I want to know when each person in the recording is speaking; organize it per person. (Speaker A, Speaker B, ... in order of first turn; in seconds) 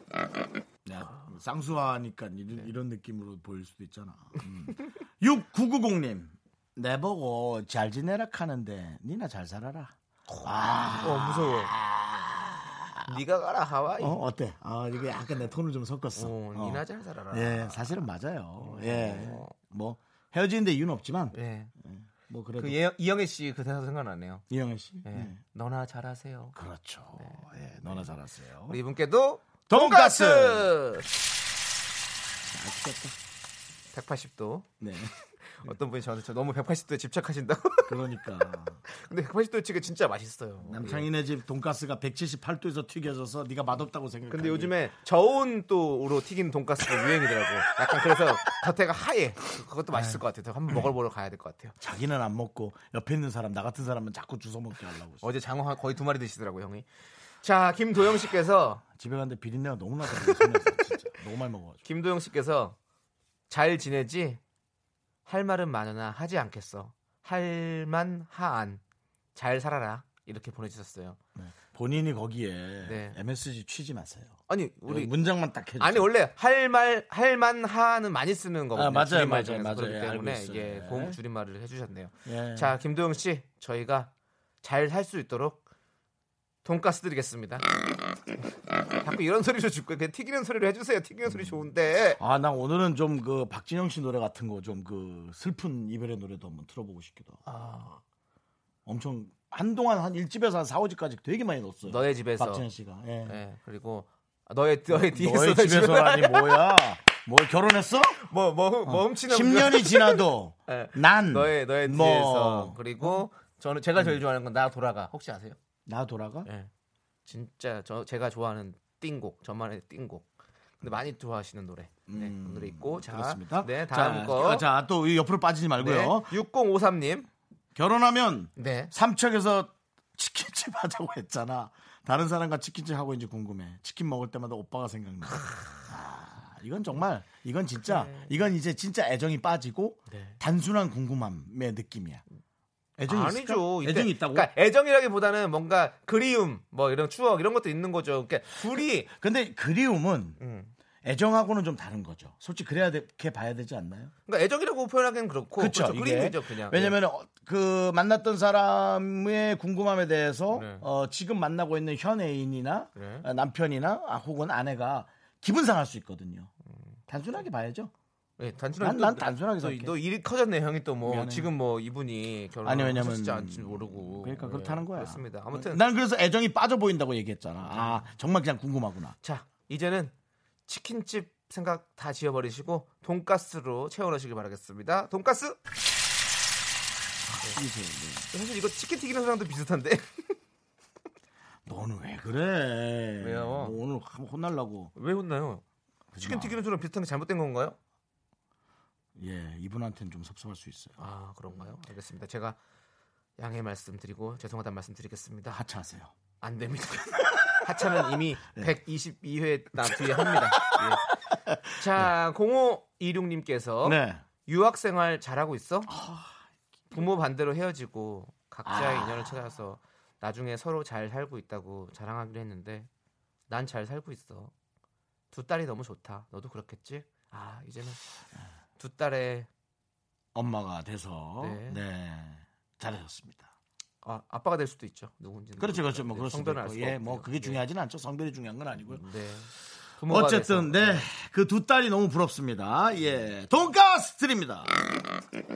Speaker A: 0.8-13.2, 14.0-22.8, 24.5-25.4, 26.6-28.8, 29.7-30.7, 32.5-33.2, 34.8-35.1, 37.9-38.8, 40.6-44.8, 49.9-50.9, 51.8-55.2, 58.9-61.8, 71.4-76.1, 78.7-81.2, 82.3-82.7, 91.3-91.5, 92.2-97.4, 98.9-103.4, 104.9-108.2, 108.8-113.3, 115.9-116.5, 122.1-126.3, 127.8-142.2, 143.0-144.5, 149.1-150.4, 151.0-154.1, 155.6-166.5, 167.1-167.9, 168.8-170.0, 171.0-171.5, 172.6-179.2, 187.3-188.3, 191.7-194.9, 196.1-196.6, 199.2-201.8, 205.5-206.1, 207.4-208.7, 209.8-212.1, 213.8-214.2, 215.9-216.3, 218.7-219.4, 230.3-233.5, 235.6-239.1, 240.1-244.8
Speaker B: 11.0-11.8, 13.1-14.2, 16.1-18.0, 18.6-19.5, 21.3-21.7, 22.6-24.4, 25.0-26.6, 27.2-28.1, 28.7-31.1, 33.9-34.7, 35.5-38.0, 38.9-41.1, 44.3-51.8, 55.2-56.9, 57.4-58.8, 61.8-62.8, 63.5-64.4, 65.3-68.8, 69.3-71.2, 72.8-73.2, 74.5-75.1, 75.8-84.1, 84.6-85.6, 86.6-87.7, 89.0-92.2, 97.5-98.0, 101.9-102.7, 103.3-106.7, 108.2-115.6, 116.5-116.7, 117.3-120.3, 120.8-124.7, 125.8-127.3, 128.6-128.9, 135.3-135.7, 137.9-138.3, 140.1-140.4, 143.1-149.1, 150.4-150.7, 154.3-157.0, 160.5-160.8, 163.0-163.3, 168.4-175.8, 177.6-178.1, 179.2-180.1, 180.7-185.6, 188.3-190.3, 193.2-193.8, 195.0-195.6, 196.2-197.8, 201.0-202.6, 203.4-205.6, 206.4-211.1, 211.7-215.9, 216.9-222.9, 223.5-224.5, 225.3-228.0, 228.8-229.5, 231.4-231.8, 234.0-237.6, 238.8-241.1